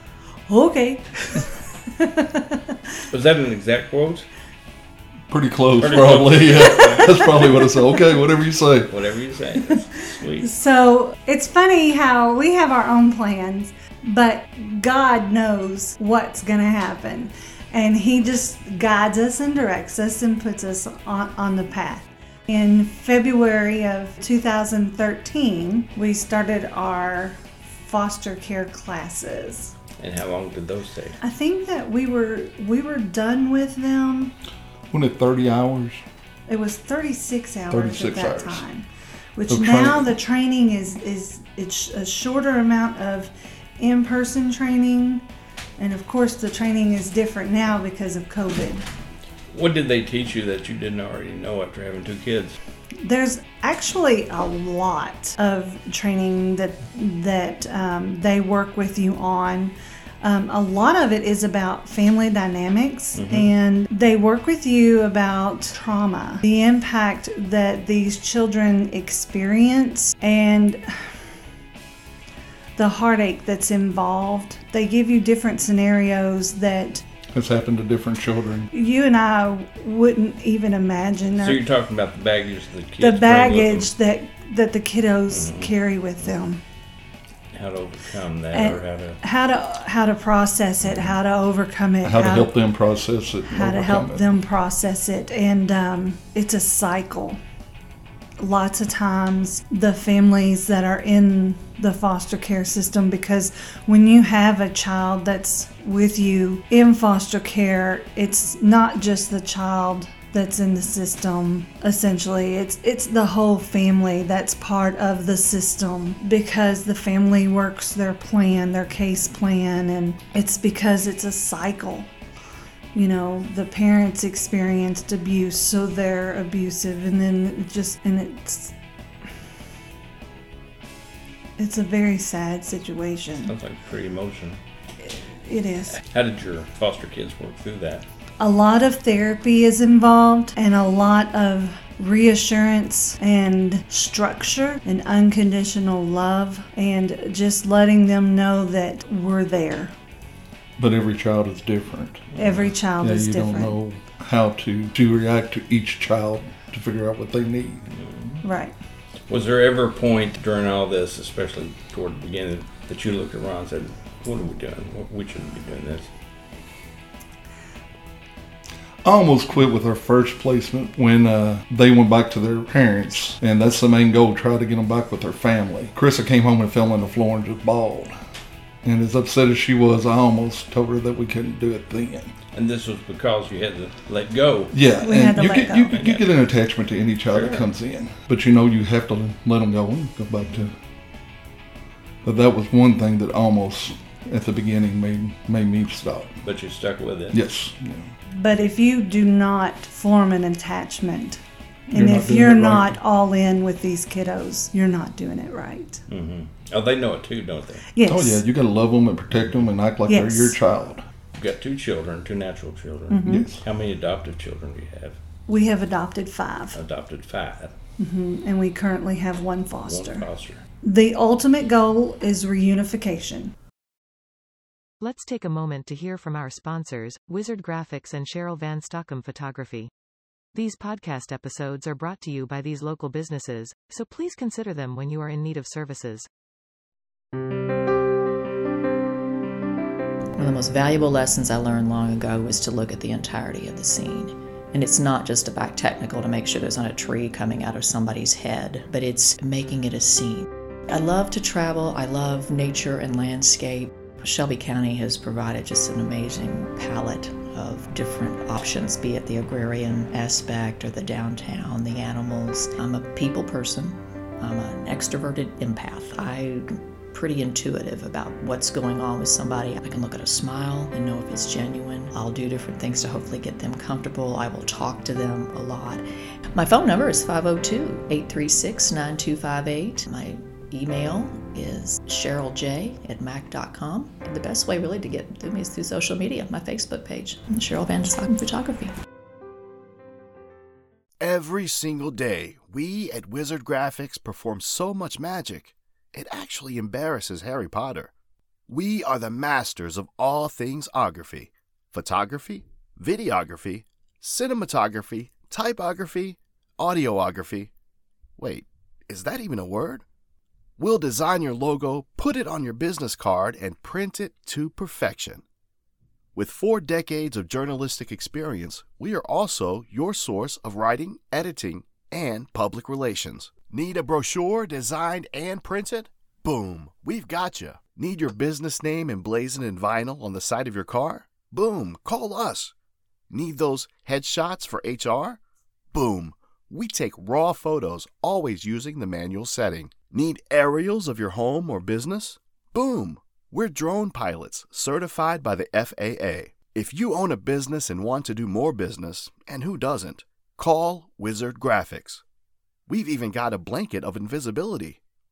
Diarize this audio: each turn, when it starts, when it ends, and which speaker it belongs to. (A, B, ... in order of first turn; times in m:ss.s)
0:00.5-0:02.8 A
0:03.1-0:04.3 B
0:05.3-0:08.9 C
0:05.8-0:07.7 B
0:06.6-0:08.2 A
0:08.9-0:10.5 B
0:10.4-0:29.7 A
0:30.0-0:31.2 B
0:31.2-0:34.3 A
0:34.9-0:36.0 C
0:36.5-0:45.2 A
0:37.7-0:38.6 C
0:39.5-0:40.1 C
0:45.8-0:48.8 A
0:49.5-0:52.6 B
0:53.0-1:11.2 A
1:03.2-1:03.5 B
1:12.8-1:17.0 A
1:17.3-1:18.7 C
1:18.7-1:21.6 A
1:21.4-1:23.9 B
1:23.0-1:26.6 A
1:25.3-1:26.4 B
1:27.5-1:29.2 B
1:28.5-1:32.5 A
1:32.0-1:34.4 C
1:33.4-1:37.4 A
1:38.4-2:02.1 A
2:02.9-2:08.7 A
2:11.6-2:13.6 A
2:13.4-2:14.6 B
2:15.0-2:16.0 A
2:15.9-2:18.0 B
2:18.4-2:29.9 A
2:30.8-2:32.2 C
2:32.3-2:32.7 B
2:32.4-2:33.8 A
2:33.0-2:37.9 C
2:37.9-2:38.4 B
2:38.4-2:38.7 A
2:39.3-2:46.1 B
2:49.0-2:58.1 C
2:58.8-3:02.3 C
3:02.5-3:04.8 B
3:04.7-3:10.8 C
3:04.9-3:06.0 A
3:05.9-3:06.3 B
3:07.3-3:07.6 B
3:12.2-3:16.4 C
3:16.4-3:17.4 B
3:17.3-3:18.1 C
3:18.4-3:21.4 A
3:21.9-3:23.0 C
3:21.9-3:26.0 A
3:26.1-3:27.8 B
3:27.9-3:28.4 A
3:28.0-3:31.0 C
3:30.0-3:30.6 A
3:31.4-3:35.2 B
3:33.1-3:33.5 A
3:33.2-3:33.6 C
3:35.5-3:36.8 A
3:36.7-3:37.7 B
3:38.0-3:40.3 A
3:39.8-3:40.6 B
3:40.8-3:43.5 A
3:45.0-3:49.9 D
3:50.5-3:56.3 D
4:00.4-4:36.0 E
4:36.5-4:48.9 E
4:51.2-4:58.1 F
4:58.7-5:07.7 F
5:08.4-5:10.0 F
5:10.8-5:15.4 F
5:16.3-5:32.7 F
5:33.3-5:35.4 F
5:35.9-5:52.2 F
5:52.9-5:55.0 F